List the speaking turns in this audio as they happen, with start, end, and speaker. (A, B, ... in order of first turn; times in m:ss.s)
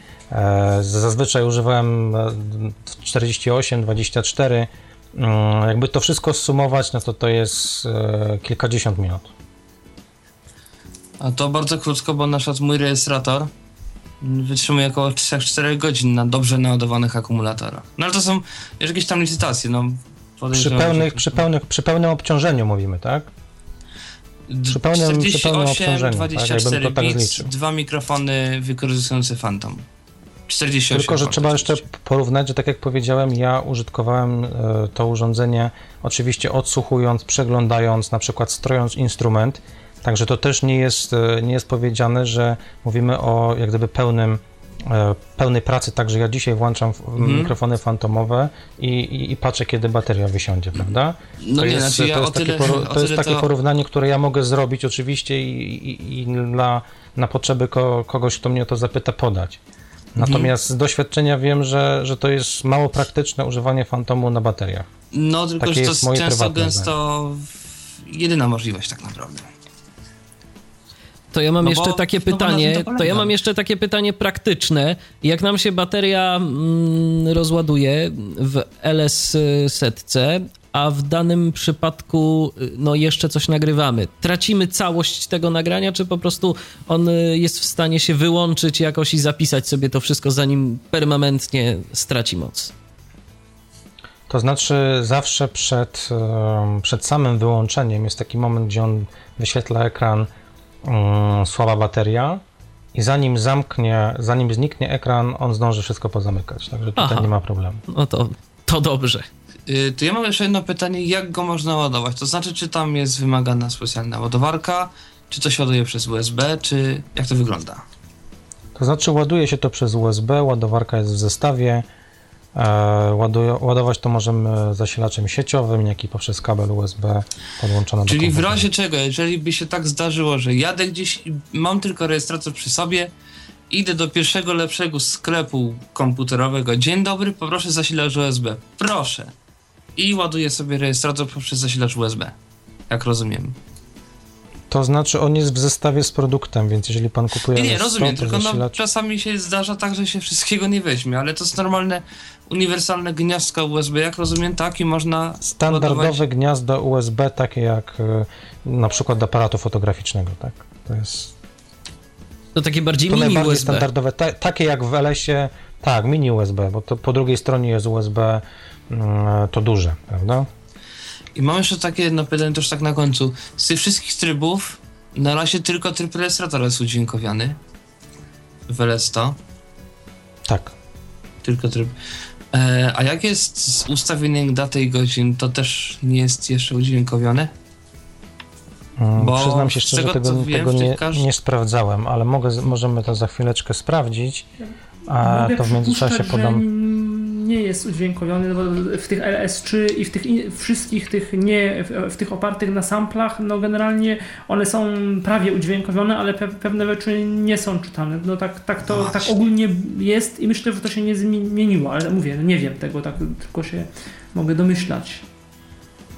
0:00.3-0:09.3 A
0:11.2-0:13.5 B
0:14.2-0:21.4 B
0:20.5-0:23.3 A
0:24.5-0:29.9 B
0:24.7-0:27.5 A
0:30.5-0:31.8 B
0:30.9-0:59.6 A
0:47.2-0:47.6 B
0:51.4-0:53.4 B
1:00.2-1:04.9 A
1:00.2-1:00.5 B
1:05.1-1:07.5 B
1:05.6-1:06.9 A
1:08.1-1:09.5 B
1:11.3-1:32.7 C
1:11.6-1:13.3 B
1:34.3-1:40.3 A
1:40.8-1:42.4 A
1:42.9-1:47.8 A
1:47.0-1:47.3 C
1:47.9-1:49.3 C
1:49.7-1:57.8 B
1:58.8-2:01.8 A
2:02.6-2:08.7 A
2:08.1-2:13.1 B
2:13.7-2:19.3 B
2:20.0-2:22.4 B
2:22.9-2:23.6 B
2:24.7-2:28.8 A
2:27.5-2:36.2 B
2:35.4-2:41.3 A
2:42.6-2:43.9 C
2:43.1-2:50.5 A
2:51.4-2:57.6 B
2:58.7-2:59.4 B
3:00.5-3:00.8 A
3:01.4-3:01.9 B
3:02.5-3:07.5 B
3:09.0-3:14.4 A
3:09.2-3:11.3 B
3:15.1-3:16.6 A
3:15.1-3:35.2 D
3:28.9-3:29.3 B